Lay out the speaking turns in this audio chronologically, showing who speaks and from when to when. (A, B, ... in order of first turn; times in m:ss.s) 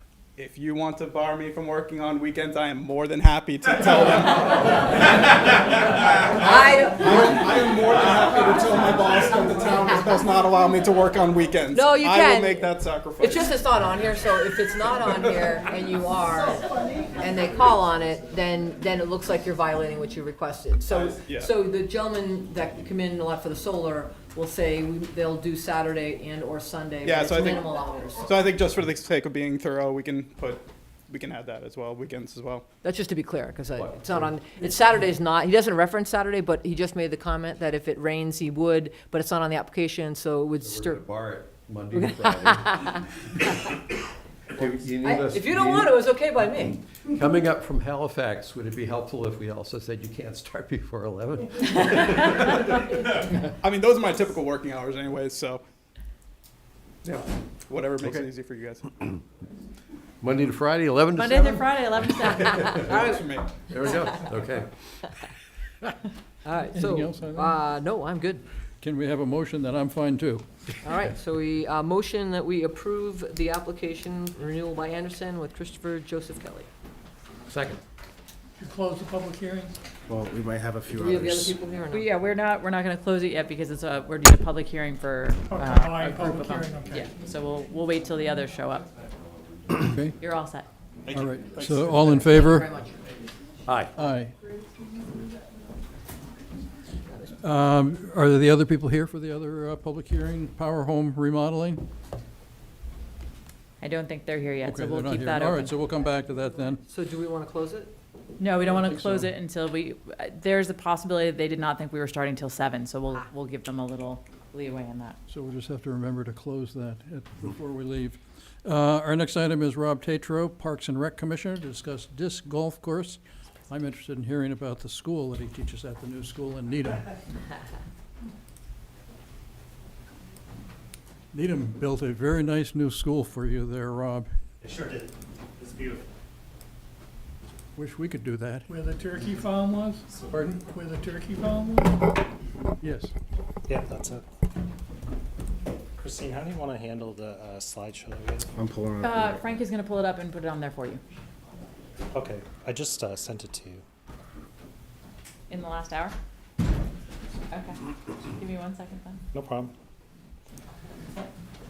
0:00.4-0:13.5 A
0:06.3-0:07.3 B
0:11.7-0:28.3 B
0:20.9-0:21.5 A
0:27.0-0:27.6 A
0:28.2-0:32.6 A
0:32.8-0:41.0 B
0:33.7-0:34.4 C
0:40.6-0:43.3 C
0:42.6-0:43.0 B
0:44.5-0:52.3 C
0:45.0-0:46.8 B
0:52.2-0:55.6 A
0:57.0-0:59.0 A
1:00.2-1:01.8 C
1:01.2-1:02.8 D
1:02.5-1:03.5 A
1:02.6-1:03.3 B
1:03.7-1:04.7 C
1:06.4-1:08.4 B
1:06.7-1:07.6 E
1:08.8-1:10.9 E
1:10.8-1:16.7 B
1:17.5-1:17.8 C
1:18.6-1:19.8 F
1:20.1-1:21.6 G
1:20.9-1:22.1 B
1:21.9-1:28.9 D
1:25.5-1:27.1 F
1:29.7-1:30.2 E
1:30.2-1:30.7 D
1:31.0-1:32.1 A
1:31.1-1:32.7 E
1:32.2-1:33.0 B
1:33.6-1:33.9 C
1:34.0-1:34.3 E
1:37.4-1:41.8 E
1:43.8-1:45.8 D
1:44.6-1:46.8 E
1:46.9-1:47.9 B
1:48.4-1:55.2 D
1:48.7-1:49.3 E
1:55.3-2:07.0 E
2:11.3-2:14.3 E
2:14.6-2:16.1 H
2:17.8-2:18.7 E
2:18.7-2:20.1 F
2:20.3-2:20.6 E
2:20.7-2:22.1 F
2:22.8-2:23.1 E
2:23.7-2:24.2 H
2:26.0-2:28.5 H
2:28.5-2:29.4 G
2:29.0-2:31.0 D
2:32.1-2:33.8 H
2:35.5-2:36.2 D
2:37.5-2:37.8 D
2:38.4-2:39.2 D
2:39.3-2:39.7 H